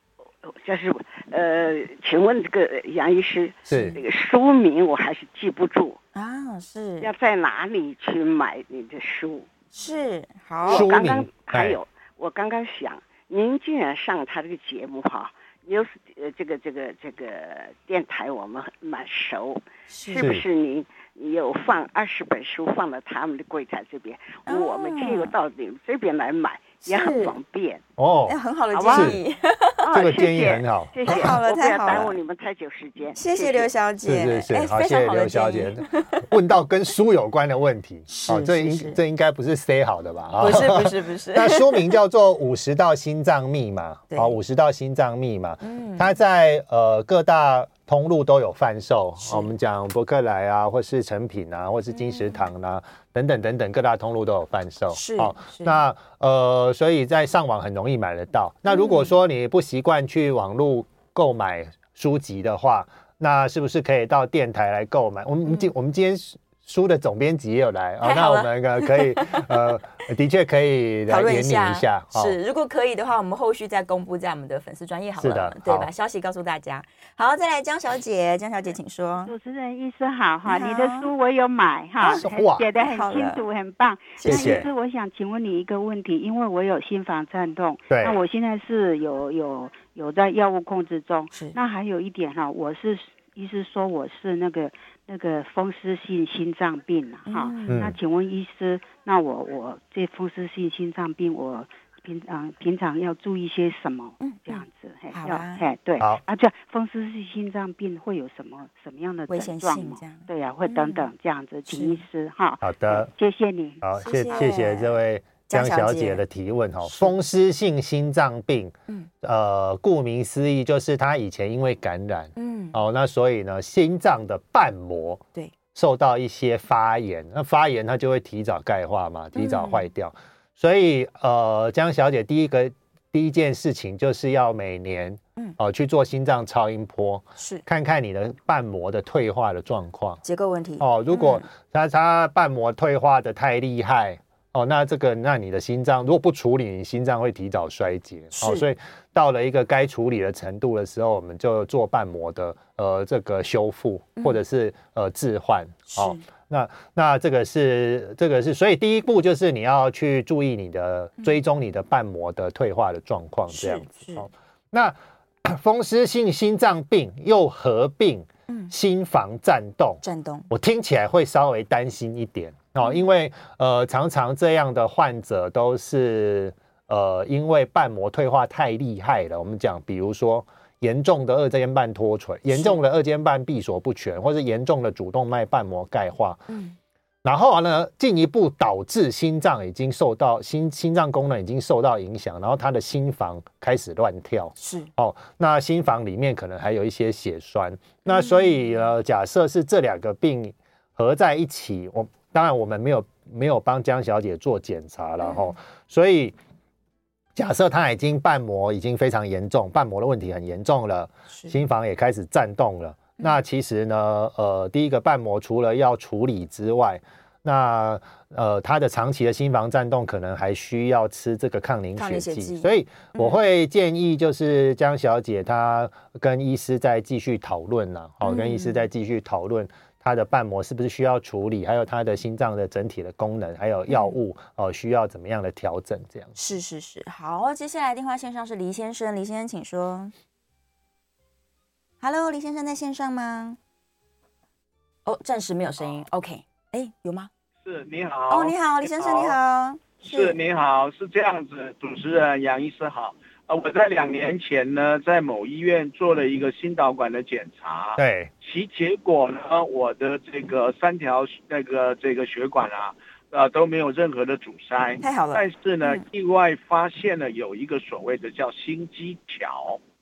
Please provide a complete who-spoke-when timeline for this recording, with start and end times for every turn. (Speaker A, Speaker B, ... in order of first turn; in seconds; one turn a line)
Speaker A: 0.4-6.0
Speaker B: 3.7-4.0
Speaker C: 3.7-4.0
Speaker C: 6.1-7.1
Speaker A: 7.0-9.5
Speaker C: 9.7-10.9
Speaker A: 10.6-27.8
Speaker B: 10.7-11.8
Speaker C: 19.9-20.2
Speaker B: 20.2-20.4
Speaker C: 24.5-25.3
Speaker C: 26.8-27.4
Speaker B: 28.0-28.4
Speaker C: 28.3-29.9
Speaker A: 28.7-29.2
Speaker B: 28.9-29.2
Speaker A: 29.8-33.7
Speaker B: 29.9-32.1
Speaker C: 31.0-32.2
Speaker C: 33.1-36.3
Speaker B: 34.0-72.4
Speaker C: 38.1-39.0
Speaker C: 40.4-42.0
Speaker C: 44.1-44.4
Speaker C: 45.6-46.1
Speaker C: 49.2-49.5
Speaker C: 51.9-52.5
Speaker C: 54.9-55.8
Speaker C: 58.7-59.1
Speaker C: 68.0-69.7
Speaker C: 71.1-79.3
Speaker B: 75.2-75.9
Speaker D: 79.2-114.5
Speaker C: 80.4-81.1
Speaker B: 82.2-82.7
Speaker C: 82.8-83.4
Speaker C: 84.2-84.7
Speaker B: 84.2-84.7
Speaker B: 87.9-88.2
Speaker C: 91.3-91.6
Speaker C: 97.2-97.9
Speaker B: 97.7-98.0
Speaker C: 104.2-105.7
Speaker C: 109.3-111.1
Speaker C: 111.7-112.0
Speaker B: 112.6-113.1
Speaker B: 113.8-140.2
Speaker C: 114.0-115.0
Speaker C: 115.5-116.2
Speaker C: 116.8-117.1
Speaker C: 122.4-122.8
Speaker C: 129.3-129.9
Speaker C: 137.4-137.6
Speaker C: 140.2-141.4
Speaker B: 140.8-186.5
Speaker C: 148.3-148.7
Speaker C: 155.9-156.2
Speaker C: 163.5-164.3
Speaker C: 170.0-170.5
Speaker C: 182.5-182.8
Speaker C: 186.5-186.8
Speaker B: 187.2-206.3
Speaker C: 194.6-194.9
Speaker C: 198.1-198.6
Speaker C: 205.2-205.5
Speaker B: 207.3-236.4
Speaker C: 221.9-223.4
Speaker C: 228.2-228.8
Speaker C: 233.9-234.1
Speaker C: 236.4-240.1
Speaker C: 242.0-243.6
Speaker C: 245.0-247.3
Speaker E: 247.6-249.4
Speaker C: 248.3-250.4
Speaker E: 250.0-269.8
Speaker B: 258.0-258.3
Speaker C: 265.0-266.0